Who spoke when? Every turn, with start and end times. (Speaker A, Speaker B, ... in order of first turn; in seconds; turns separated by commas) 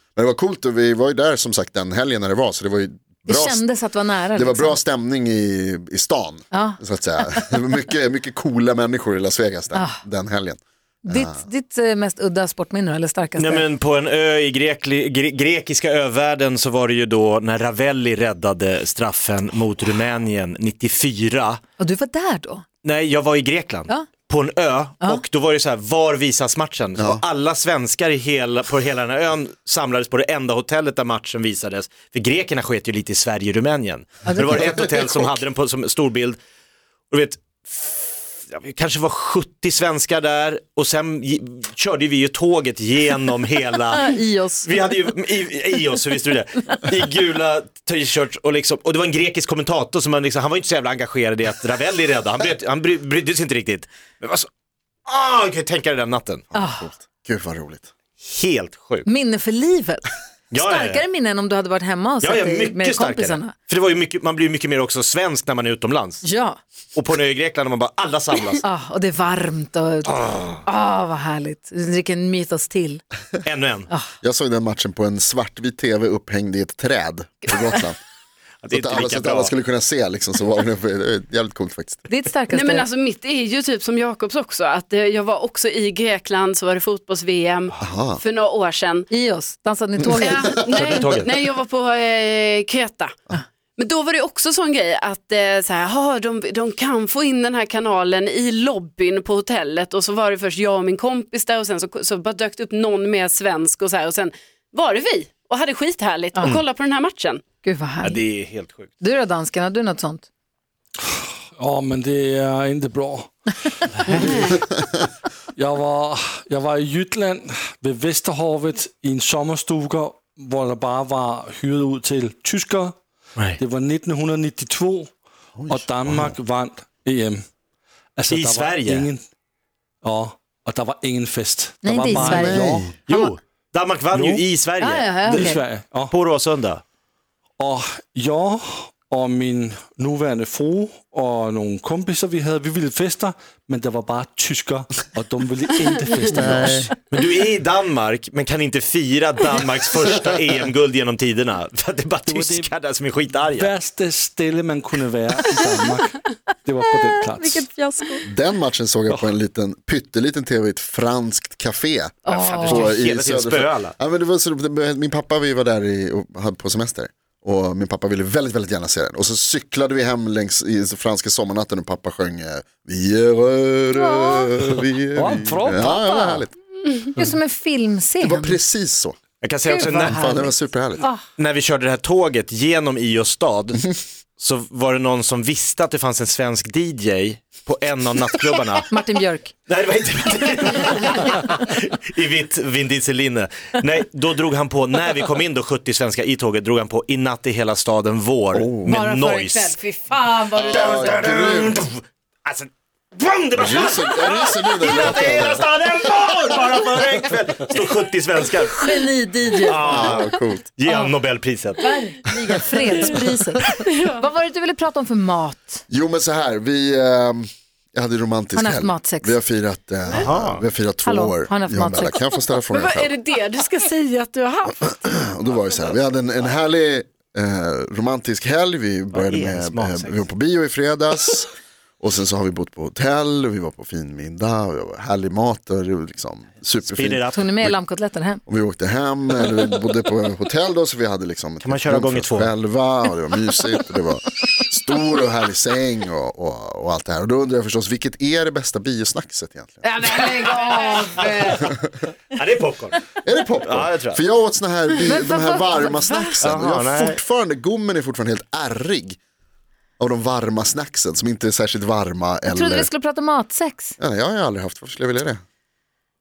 Speaker A: 0.1-3.6, Speaker B: 3.2-4.8, Speaker A: 4.3-11.4, Speaker B: 6.5-7.6, Speaker B: 9.7-10.0, Speaker B: 11.0-13.6, Speaker C: 13.4-21.6, Speaker B: 21.8-22.6, Speaker C: 22.8-36.4, Speaker A: 27.0-27.2, Speaker B: 34.2-34.8, Speaker C: 37.1-44.1, Speaker B: 43.9-44.8, Speaker C: 44.6-54.5, Speaker C: 55.0-56.4, Speaker A: 56.5-57.9, Speaker B: 56.5-56.9, Speaker C: 58.2-59.1, Speaker B: 59.0-63.5, Speaker C: 60.5-61.0, Speaker C: 62.2-66.3, Speaker B: 66.2-66.6, Speaker C: 66.9-68.6, Speaker B: 68.6-73.0, Speaker C: 70.1-70.6, Speaker C: 73.4-73.9, Speaker A: 74.2-78.0, Speaker C: 78.6-79.5, Speaker A: 78.7-82.1, Speaker B: 82.1-82.8, Speaker D: 82.5-89.1, Speaker A: 87.8-88.2, Speaker B: 89.1-90.7, Speaker D: 90.1-93.2, Speaker C: 90.7-91.3, Speaker D: 93.8-107.4, Speaker B: 107.6-108.2, Speaker C: 108.0-108.9, Speaker B: 109.0-110.3, Speaker E: 111.6-113.3, Speaker D: 114.1-114.6, Speaker E: 115.6-123.0, Speaker E: 123.6-125.2, Speaker A: 125.5-126.3, Speaker E: 125.7-127.4, Speaker E: 128.2-129.2, Speaker C: 128.3-129.1, Speaker E: 130.0-132.9, Speaker B: 131.8-133.3, Speaker A: 132.1-132.9, Speaker C: 133.1-135.6, Speaker E: 134.1-134.4, Speaker B: 134.8-135.6, Speaker E: 135.2-136.1, Speaker C: 136.1-136.8, Speaker E: 137.6-146.9, Speaker A: 146.3-146.9, Speaker C: 147.1-153.7, Speaker E: 152.3-152.7, Speaker E: 153.5-157.7, Speaker B: 157.1-158.2, Speaker A: 158.2-176.5, Speaker B: 162.2-162.9, Speaker C: 162.3-163.9, Speaker B: 173.9-174.5, Speaker E: 175.1-176.2, Speaker B: 175.7-176.4, Speaker B: 177.1-178.6, Speaker A: 178.2-179.2, Speaker C: 179.4-180.4, Speaker B: 179.7-181.2, Speaker A: 179.9-181.0, Speaker C: 181.4-188.9, Speaker B: 188.9-189.5, Speaker C: 189.7-199.8, Speaker A: 198.5-198.9, Speaker B: 198.8-201.6, Speaker A: 200.6-201.8, Speaker C: 200.6-209.0, Speaker A: 203.6-205.7, Speaker B: 208.7-210.1, Speaker C: 209.6-211.8, Speaker A: 209.7-210.6, Speaker B: 211.8-215.8, Speaker D: 213.7-214.2, Speaker A: 215.9-223.2, Speaker B: 218.5-219.4, Speaker C: 220.1-220.6, Speaker B: 221.0-222.2, Speaker D: 222.7-225.8, Speaker A: 224.8-237.8, Speaker C: 229.1-230.3, Speaker C: 236.8-237.6, Speaker B: 237.3-238.4, Speaker A: 238.5-250.0, Speaker C: 241.6-242.5, Speaker B: 249.8-251.7, Speaker D: 250.2-251.3, Speaker A: 251.4-251.9, Speaker C: 252.3-253.0, Speaker A: 253.2-259.2, Speaker C: 253.6-254.2, Speaker B: 255.1-256.3, Speaker D: 256.1-256.4, Speaker C: 256.4-257.2, Speaker A: 260.0-262.9, Speaker B: 262.5-264.0, Speaker A: 264.0-265.4